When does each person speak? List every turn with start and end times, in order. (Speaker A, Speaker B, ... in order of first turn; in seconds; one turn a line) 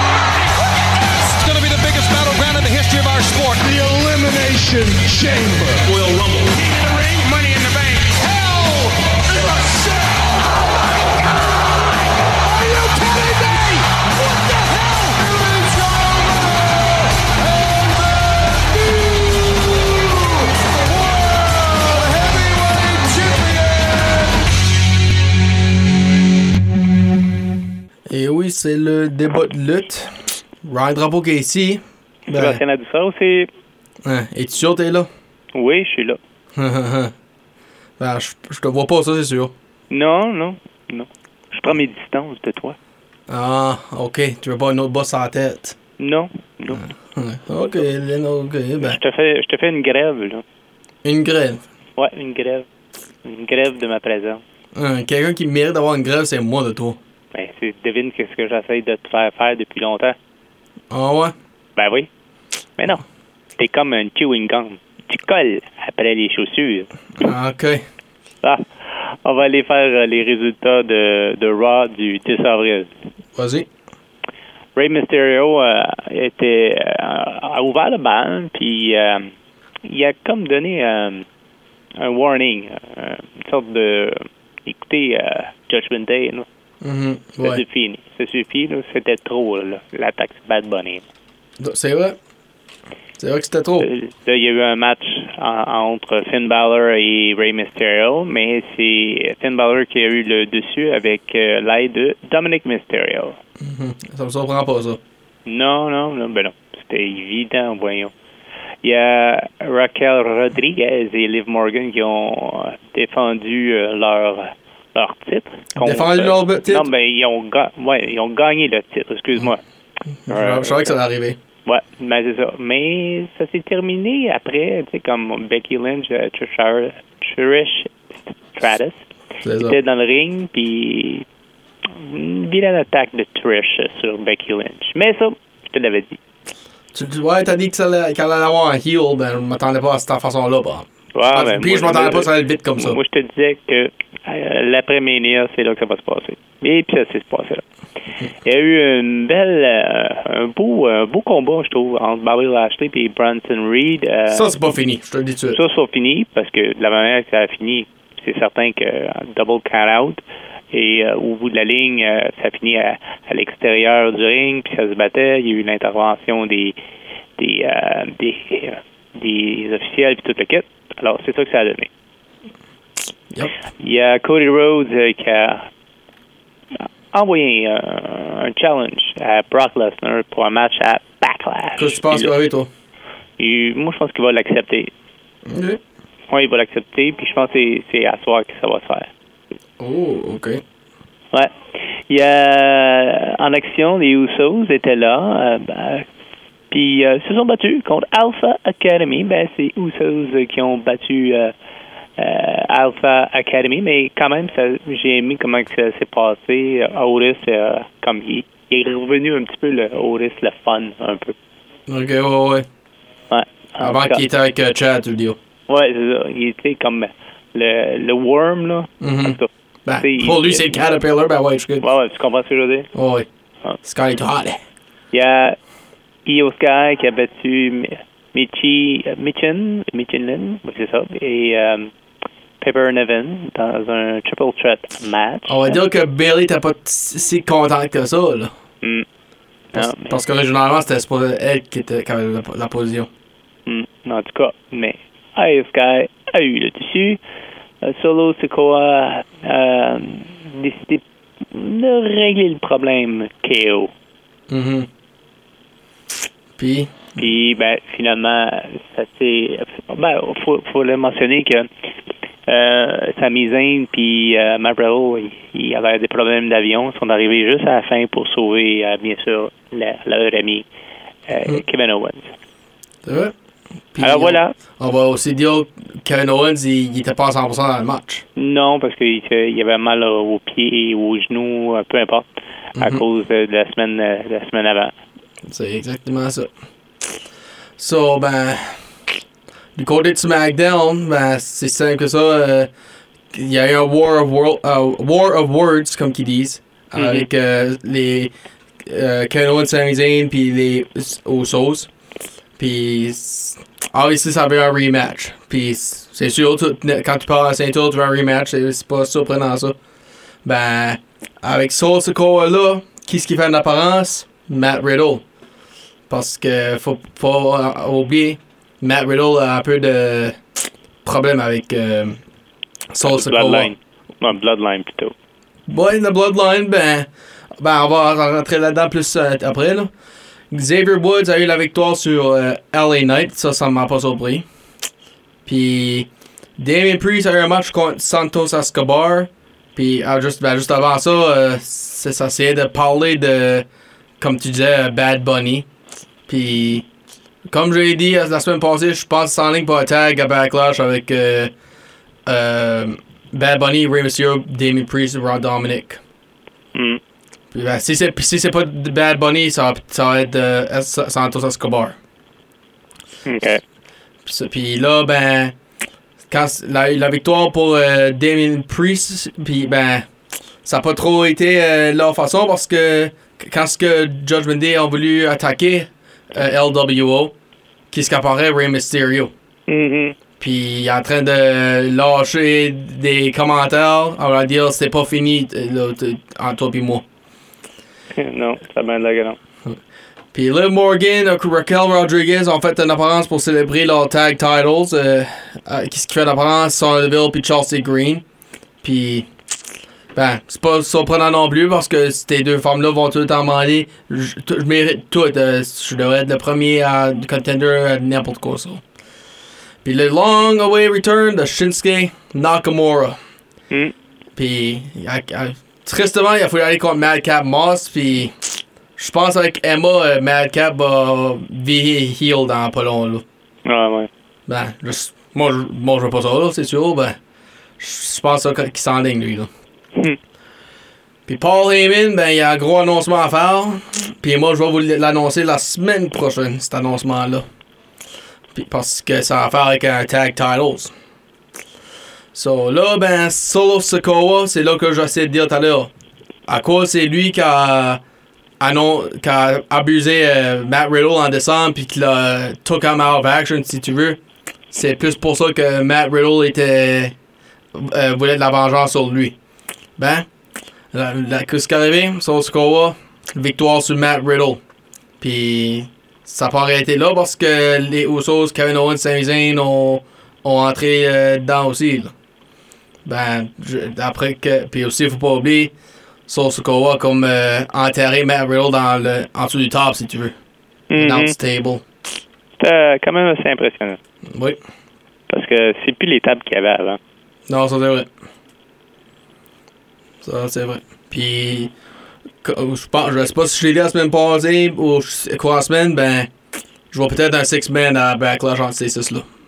Speaker A: 1.2-3.6
Speaker B: 3.6-10.5
Speaker B: 12.4-24.4
Speaker C: 28.1-32.6
Speaker D: 32.3-33.5
Speaker C: 34.0-35.1
Speaker D: 35.5-36.2
Speaker C: 36.5-37.1
Speaker C: 38.0-39.5
Speaker D: 39.9-42.8
Speaker C: 43.3-45.8
Speaker D: 46.0-46.8
Speaker C: 46.7-49.0
Speaker D: 48.8-50.4
Speaker C: 51.0-51.6
Speaker D: 52.0-52.7
Speaker D: 53.2-54.4
Speaker C: 54.7-57.0
Speaker D: 57.3-60.1
Speaker C: 60.9-61.3
Speaker D: 61.8-62.1
Speaker D: 62.8-63.0
Speaker D: 63.6-66.9
Speaker C: 67.2-67.8
Speaker D: 68.4-72.9
Speaker C: 73.3-73.7
Speaker D: 74.8-79.3
Speaker D: 79.8-81.2
Speaker D: 82.0-86.5
Speaker C: 86.8-87.6
Speaker D: 87.4-91.0
Speaker C: 91.6-92.2
Speaker C: 93.2-93.9
Speaker D: 93.8-103.4
Speaker C: 103.6-105.0
Speaker D: 105.5-108.1
Speaker D: 108.8-119.6
Speaker C: 115.8-116.9
Speaker C: 120.3-121.4
Speaker D: 120.3-121.0
Speaker D: 121.6-128.0
Speaker D: 128.5-129.0
Speaker C: 129.4-129.8
Speaker D: 129.6-131.2
Speaker D: 131.9-136.2
Speaker C: 136.9-143.0
Speaker D: 141.1-147.6
Speaker D: 148.4-154.5
Speaker C: 154.3-155.6
Speaker D: 155.5-160.2
Speaker D: 160.7-166.8
Speaker D: 167.4-171.9
Speaker D: 173.8-175.6
Speaker D: 176.8-182.3
Speaker C: 181.8-182.7
Speaker D: 183.4-184.9
Speaker C: 185.4-185.8
Speaker D: 186.3-189.1
Speaker C: 189.8-190.6
Speaker D: 192.1-196.1
Speaker D: 196.7-201.5
Speaker D: 202.2-211.3
Speaker C: 211.9-212.7
Speaker D: 213.3-214.2
Speaker C: 213.8-215.4
Speaker D: 215.7-220.9
Speaker C: 219.0-221.8
Speaker D: 221.8-222.9
Speaker C: 222.9-223.3
Speaker C: 223.8-224.6
Speaker D: 225.1-225.6
Speaker D: 226.2-231.9
Speaker D: 232.6-235.8
Speaker C: 235.5-238.5
Speaker D: 239.7-240.2
Speaker C: 239.8-243.1
Speaker D: 243.7-247.2
Speaker D: 247.8-253.9
Speaker C: 254.5-254.9
Speaker C: 256.6-257.0
Speaker D: 257.2-261.7
Speaker D: 262.5-270.6
Speaker D: 271.3-272.3
Speaker C: 273.0-273.3
Speaker C: 273.9-278.2
Speaker D: 274.0-274.6
Speaker D: 278.4-284.9
Speaker C: 282.8-283.0
Speaker C: 285.5-286.5
Speaker C: 287.8-288.9
Speaker C: 289.8-292.7
Speaker C: 293.3-301.9
Speaker D: 297.0-297.3
Speaker C: 302.6-309.8
Speaker C: 310.4-315.2
Speaker C: 316.1-320.4
Speaker C: 321.1-322.2
Speaker C: 322.9-323.7
Speaker D: 323.0-325.1
Speaker C: 325.7-329.9
Speaker C: 330.5-334.5
Speaker C: 335.5-343.7
Speaker C: 344.2-345.7
Speaker C: 346.3-346.9
Speaker C: 347.5-351.5
Speaker C: 352.2-356.0
Speaker D: 356.8-357.0
Speaker C: 357.5-362.0
Speaker D: 363.2-363.6
Speaker C: 364.2-365.6
Speaker C: 366.3-370.1
Speaker C: 370.6-377.3
Speaker C: 377.9-379.3
Speaker D: 379.7-380.2
Speaker C: 380.4-387.1
Speaker D: 388.1-389.4
Speaker C: 390.3-398.2
Speaker C: 398.8-399.3
Speaker C: 400.1-408.8
Speaker C: 409.8-413.2
Speaker C: 414.4-418.4
Speaker C: 419.0-423.2
Speaker D: 423.6-424.1
Speaker C: 424.5-427.2
Speaker C: 427.8-429.5
Speaker C: 431.2-437.4
Speaker C: 438.5-440.9
Speaker C: 442.3-445.9
Speaker C: 446.5-448.0
Speaker C: 448.6-454.2
Speaker C: 454.7-457.1
Speaker C: 457.8-459.4
Speaker C: 460.0-460.2
Speaker C: 460.9-464.6
Speaker C: 465.2-472.1
Speaker C: 473.1-475.7
Speaker C: 476.3-480.3
Speaker D: 480.9-481.4
Speaker C: 480.9-481.8
Speaker D: 482.6-484.0
Speaker C: 484.3-484.6
Speaker D: 485.3-487.0
Speaker C: 487.5-488.1
Speaker C: 490.2-491.7
Speaker C: 492.4-496.3
Speaker C: 496.9-499.2